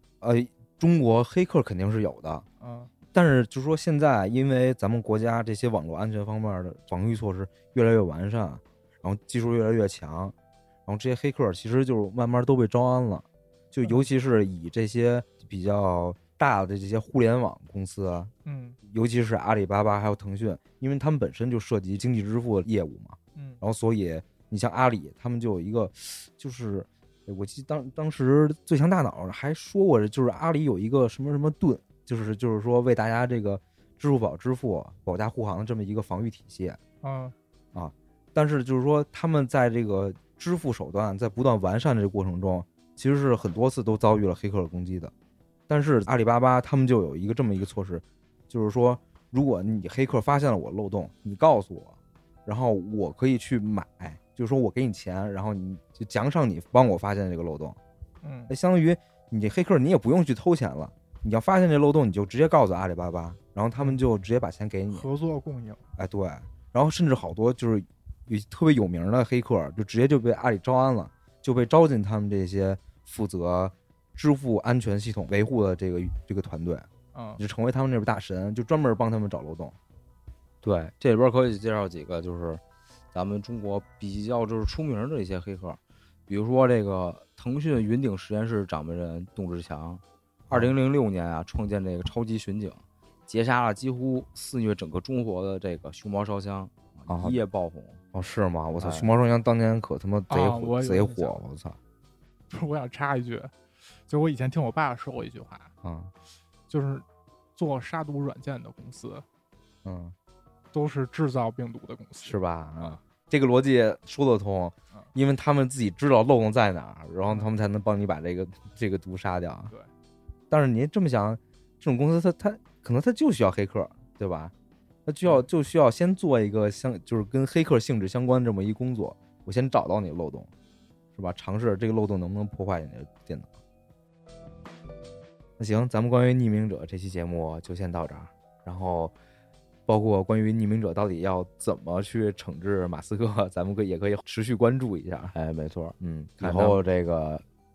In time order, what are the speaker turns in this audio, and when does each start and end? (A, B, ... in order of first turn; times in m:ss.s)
0:00.2-0:02.4 A
0:02.6-0:02.9 B
0:03.1-0:10.3 A
0:10.9-0:18.3 A
0:18.4-0:18.8 B
0:18.8-0:36.8 A
0:23.3-0:23.6 B
0:37.0-0:37.3 B
0:37.7-0:45.1 A
0:45.7-0:57.8 A
0:58.2-0:58.5 B
0:58.5-1:05.1 A
1:04.9-1:05.8 B
1:06.0-1:19.8 A
1:17.1-1:17.4 B
1:20.6-1:22.6 C
1:23.1-1:38.0 C
1:37.1-1:37.4 A
1:38.1-1:41.8 A
1:38.8-1:39.1 C
1:40.3-1:41.4 B
1:42.5-1:43.5 B
1:44.1-1:45.7 B
1:45.8-1:46.1 A
1:46.7-1:47.0 B
1:47.6-1:49.2 B
1:49.8-1:50.1 A
1:50.7-1:53.0 B
1:52.2-1:59.7 A
2:00.5-2:04.5 A
2:05.0-2:10.5 A
2:11.1-2:13.5 A
2:15.6-2:19.2 A
2:19.9-2:25.3 A
2:25.3-2:27.4 C
2:26.0-2:26.8 A